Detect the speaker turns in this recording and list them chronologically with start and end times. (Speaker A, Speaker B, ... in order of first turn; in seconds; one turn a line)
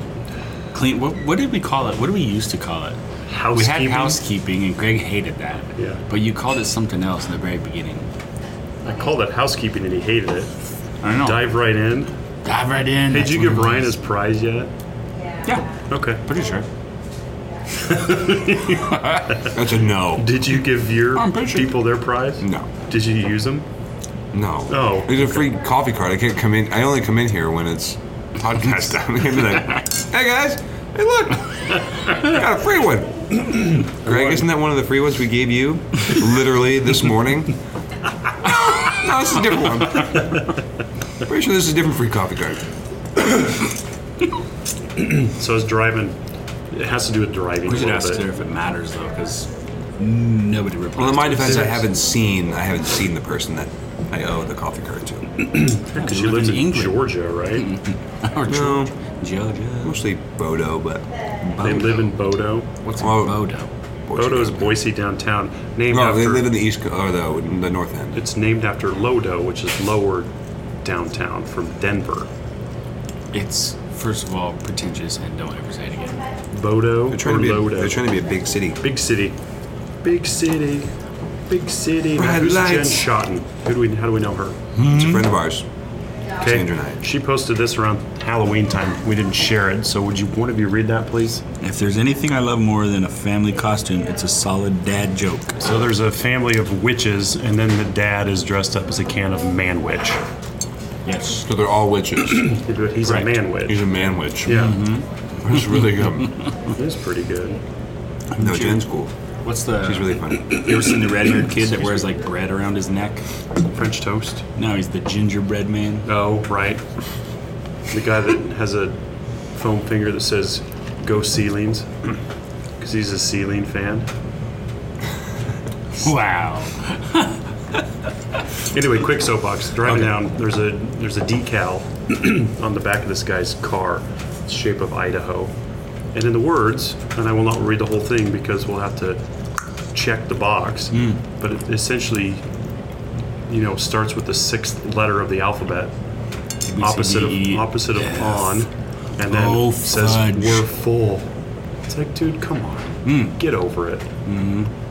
Speaker A: 0.7-3.0
Speaker B: 3.3-4.2
Speaker A: 3.5-8.1
Speaker B: 5.8-6.0
Speaker B: 8.8-10.5
Speaker A: 11.0-11.5
Speaker B: 11.2-12.1
Speaker A: 12.4-13.9
Speaker B: 13.1-14.7
Speaker B: 15.9-16.2
Speaker A: 16.2-16.6
Speaker B: 17.8-19.6
Speaker A: 18.8-19.4
Speaker C: 19.5-20.4
Speaker B: 20.1-23.6
Speaker A: 21.1-21.7
Speaker C: 22.4-22.7
Speaker C: 24.3-37.5
Speaker B: 24.7-25.5
Speaker C: 38.4-40.2
Speaker C: 41.2-42.6
Speaker B: 45.0-46.1
Speaker B: 46.7-48.2
Speaker A: 47.6-51.8
Speaker C: 51.0-55.3
Speaker B: 55.4-57.7
Speaker A: 55.9-57.0
Speaker A: 57.6-60.0
Speaker C: 58.5-58.9
Speaker C: 59.8-62.1
Speaker B: 61.6-62.7
Speaker A: 62.8-63.7
Speaker C: 63.0-63.5
Speaker C: 64.1-64.9
Speaker B: 64.1-66.5
Speaker C: 65.9-68.2
Speaker B: 68.1-70.3
Speaker B: 70.8-72.3
Speaker A: 73.3-76.2
Speaker B: 76.5-78.0
Speaker C: 77.1-78.8
Speaker B: 78.8-79.3
Speaker B: 80.0-80.9
Speaker B: 81.5-84.5
Speaker C: 82.2-83.0
Speaker A: 84.8-85.3
Speaker C: 84.8-85.6
Speaker B: 86.4-91.4
Speaker C: 86.4-87.0
Speaker A: 91.6-95.6
Speaker B: 95.6-100.2
Speaker A: 101.0-101.4
Speaker C: 101.4-104.8
Speaker B: 102.4-103.8
Speaker B: 104.4-104.8
Speaker A: 104.5-105.0
Speaker C: 105.4-106.4
Speaker B: 106.7-107.6
Speaker A: 108.3-108.8
Speaker C: 108.4-109.1
Speaker A: 109.4-113.2
Speaker C: 109.8-110.6
Speaker B: 113.7-114.4
Speaker A: 114.6-116.1
Speaker B: 116.0-116.8
Speaker B: 117.9-119.0
Speaker B: 119.5-122.1
Speaker B: 122.8-124.1
Speaker A: 126.0-127.4
Speaker B: 128.7-135.5
Speaker A: 129.8-130.1
Speaker B: 136.1-139.2
Speaker B: 139.9-142.4
Speaker A: 140.9-141.2
Speaker B: 143.5-145.9
Speaker A: 146.7-148.6
Speaker B: 146.8-151.3
Speaker A: 149.3-150.6
Speaker B: 151.9-154.1
Speaker A: 153.0-153.4
Speaker A: 154.2-154.7